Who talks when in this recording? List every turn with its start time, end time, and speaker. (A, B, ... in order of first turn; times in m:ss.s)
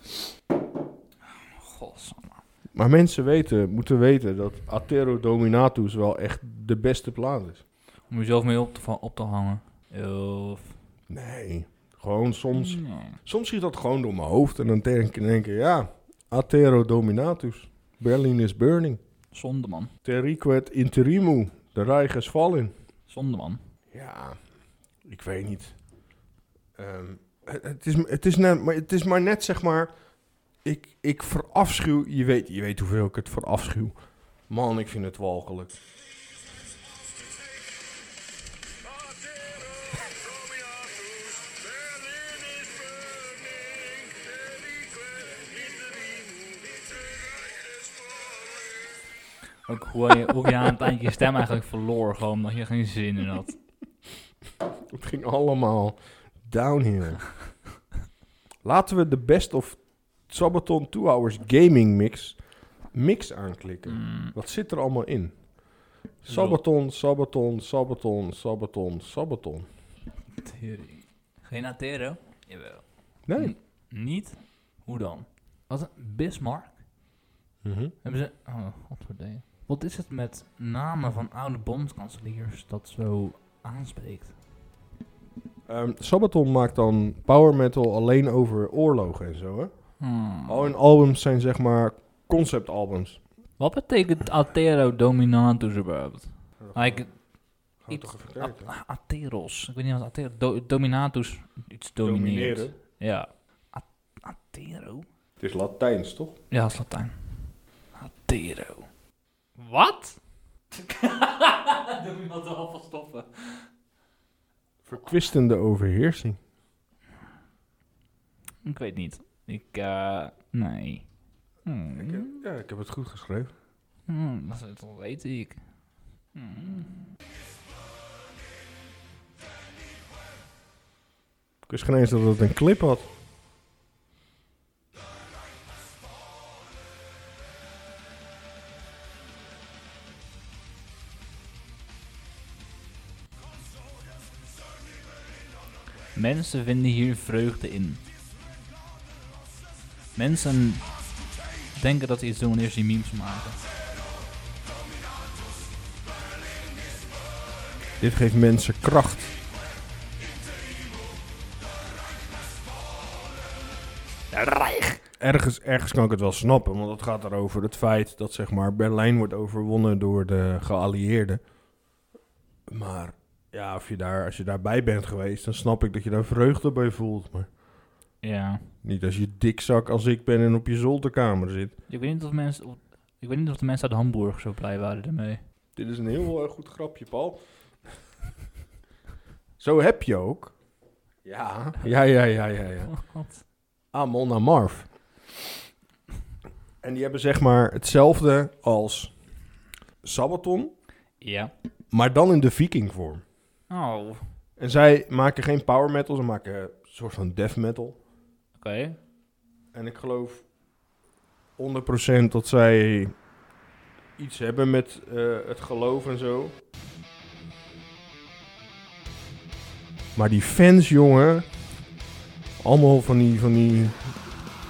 0:01.2-0:02.4 A
0:02.7-0:07.6 B
0:08.1-0:10.8 A
0:11.1-0:19.0 B
0:12.5-0:13.2 A
0:19.3-0:19.9 A
0:20.0-0:22.7 B
0:23.1-0:23.6 A
0:23.9-0:24.4 B
0:25.0-0:25.8 B
0:26.8-0:29.9 B
0:30.6-0:35.8 B
0:49.7-0:53.6 A
0:54.9-0:57.3 B
0:58.6-1:05.6 B
1:03.9-1:04.3 A
1:06.2-1:09.7 B
1:06.2-1:06.6 A
1:10.3-1:16.8 A
1:13.2-1:13.6 B
1:17.6-1:17.9 B
1:18.0-1:24.3 A
1:25.7-1:33.2 B
1:30.0-1:30.7 A
1:33.6-1:37.1 A
1:36.6-1:37.2 B
1:37.8-1:38.7 B
1:37.8-1:45.0 A
1:42.0-1:42.7 B
1:45.4-1:46.4 B
1:46.5-1:47.1 A
1:47.9-1:48.9 A
1:49.6-1:50.2 A
1:50.7-1:53.7 A
1:54.8-1:56.4 B
1:58.6-2:01.1 A
2:01.6-2:02.4 A
2:01.9-2:03.5 B
2:04.1-2:05.6 A
2:06.3-2:07.1 A
2:11.7-2:13.1 B
2:26.1-2:28.0 A
2:30.1-2:31.0 A
2:31.7-2:33.6 A
2:38.0-2:39.4 B
2:44.3-2:45.0 A
2:45.2-2:51.4 B
2:52.7-2:57.5 B
2:58.2-2:58.7 A
2:58.8-3:01.8 B
3:01.9-3:05.4 A
3:05.8-3:07.4 B
3:09.6-3:10.6 B
3:11.2-3:13.0 B
3:12.9-3:13.4 A
3:13.9-3:14.9 B
3:16.8-3:19.2 B
3:20.0-3:20.7 B
3:21.2-3:21.5 A
3:21.9-3:23.2 B
3:23.7-3:24.2 A
3:24.6-3:28.0 B
3:28.6-3:29.0 A
3:29.7-3:30.5 B
3:31.6-3:33.2 B
3:34.2-3:36.5 B
3:40.1-3:41.5 B
3:42.6-3:44.1 B